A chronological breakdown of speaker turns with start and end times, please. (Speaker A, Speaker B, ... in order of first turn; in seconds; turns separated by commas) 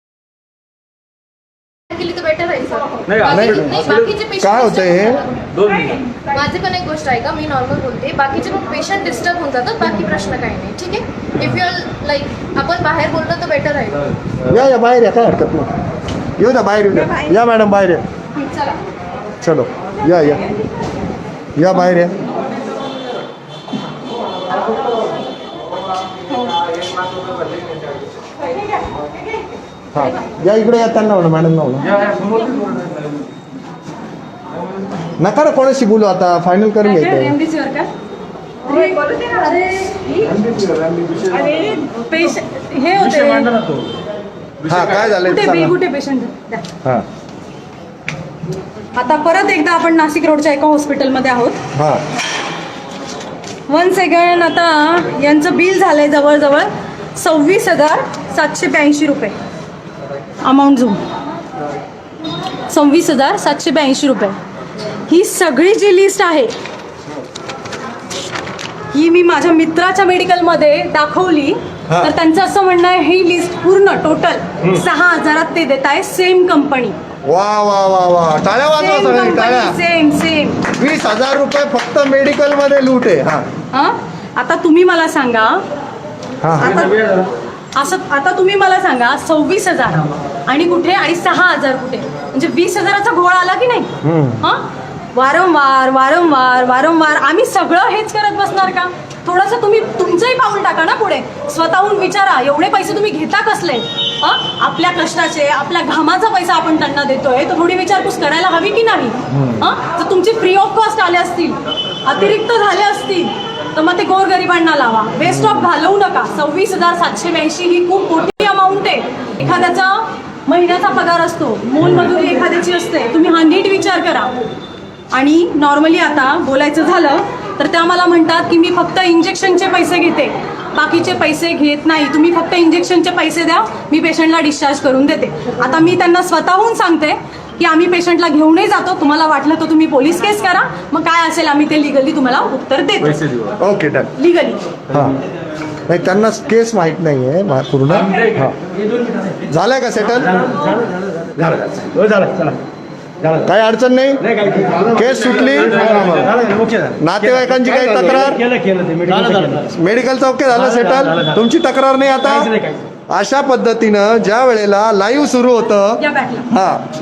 Speaker A: 1.9-5.2, Speaker B: 3.2-3.7, Speaker B: 4.4-5.2, Speaker A: 6.1-14.1, Speaker B: 14.4-15.7, Speaker B: 16.4-18.0, Speaker A: 18.4-18.8, Speaker B: 19.4-20.5, Speaker B: 21.6-22.1, Speaker B: 29.9-32.2, Speaker B: 35.2-37.3, Speaker C: 36.8-37.9, Speaker C: 38.6-40.3, Speaker B: 40.3-41.5, Speaker C: 41.4-43.5, Speaker B: 44.6-45.8, Speaker C: 45.2-46.7, Speaker C: 48.9-51.6, Speaker B: 51.7-52.0, Speaker C: 53.7-59.4, Speaker C: 60.4-61.0, Speaker C: 62.7-64.4, Speaker C: 65.1-66.5, Speaker C: 68.9-77.0, Speaker B: 77.2-79.8, Speaker C: 78.8-80.7, Speaker B: 80.7-83.5, Speaker C: 83.7-85.6, Speaker B: 86.4-86.9, Speaker C: 86.6-93.9, Speaker B: 94.0-94.4, Speaker C: 94.4-124.3, Speaker B: 115.2-115.7, Speaker B: 121.8-122.1, Speaker C: 125.1-143.3, Speaker B: 143.6-144.1, Speaker C: 144.2-144.6, Speaker B: 144.9-145.2, Speaker B: 145.9-148.5, Speaker B: 149.5-150.4, Speaker B: 151.4-151.9, Speaker D: 152.0-152.6, Speaker B: 153.3-156.4, Speaker D: 156.5-156.9, Speaker B: 157.0-158.5, Speaker D: 158.5-159.6, Speaker B: 159.5-162.5, Speaker B: 163.1-166.8, Speaker C: 166.0-166.5